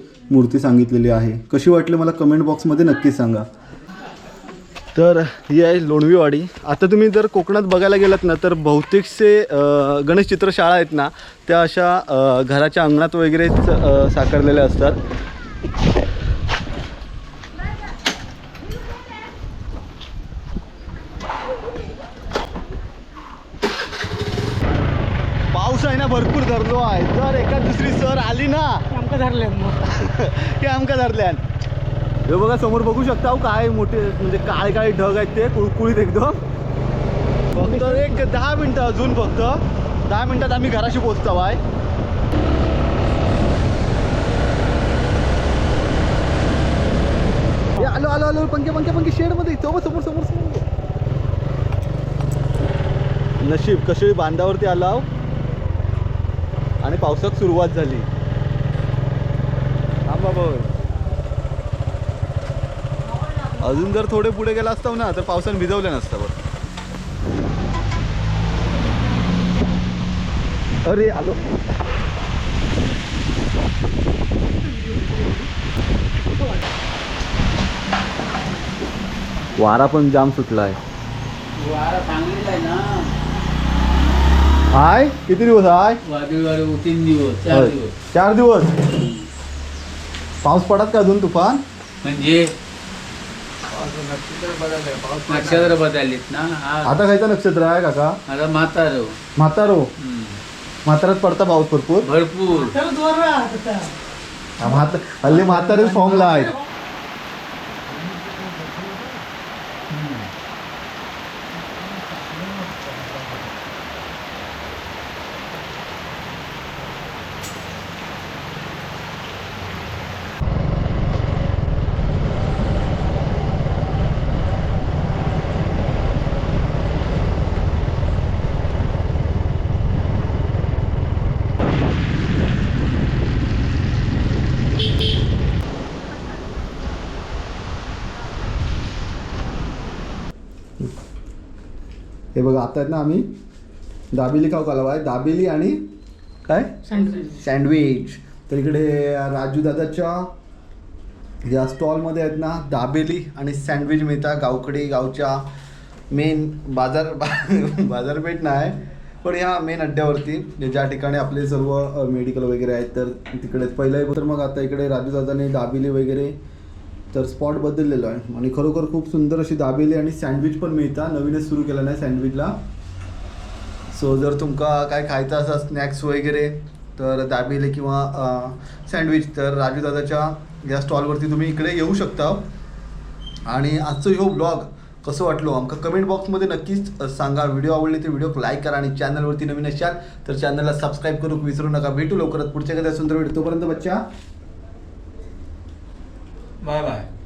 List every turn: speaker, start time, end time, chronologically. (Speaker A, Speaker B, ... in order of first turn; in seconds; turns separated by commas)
Speaker A: 0.3-3.5, Speaker A: 4.9-15.0, Speaker A: 25.5-28.9, Speaker B: 28.9-29.9, Speaker A: 29.8-31.4, Speaker A: 32.2-36.4, Speaker A: 37.5-41.6, Speaker B: 37.6-38.2, Speaker A: 47.7-50.6, Speaker A: 53.4-55.1, Speaker A: 56.8-58.1, Speaker A: 60.1-60.7, Speaker A: 63.6-66.4, Speaker A: 70.8-71.4, Speaker B: 74.7-75.5, Speaker A: 79.6-80.8, Speaker C: 81.5-83.1, Speaker A: 84.7-86.0, Speaker C: 86.0-87.9, Speaker A: 87.5-88.9, Speaker C: 88.9-89.3, Speaker A: 90.4-91.6, Speaker C: 92.0-92.5, Speaker C: 95.2-97.0, Speaker A: 96.8-98.2, Speaker C: 98.3-99.1, Speaker A: 99.4-99.9, Speaker C: 100.0-100.4, Speaker A: 100.8-102.1, Speaker C: 102.0-102.8, Speaker B: 102.5-103.9, Speaker A: 104.6-106.5, Speaker B: 105.4-106.5, Speaker B: 112.1-113.1, Speaker A: 142.3-143.3, Speaker A: 144.1-145.8, Speaker A: 146.4-150.3, Speaker B: 146.9-147.3, Speaker A: 151.4-155.5, Speaker A: 156.1-166.3, Speaker A: 167.1-172.5, Speaker A: 173.9-182.4, Speaker A: 183.5-194.0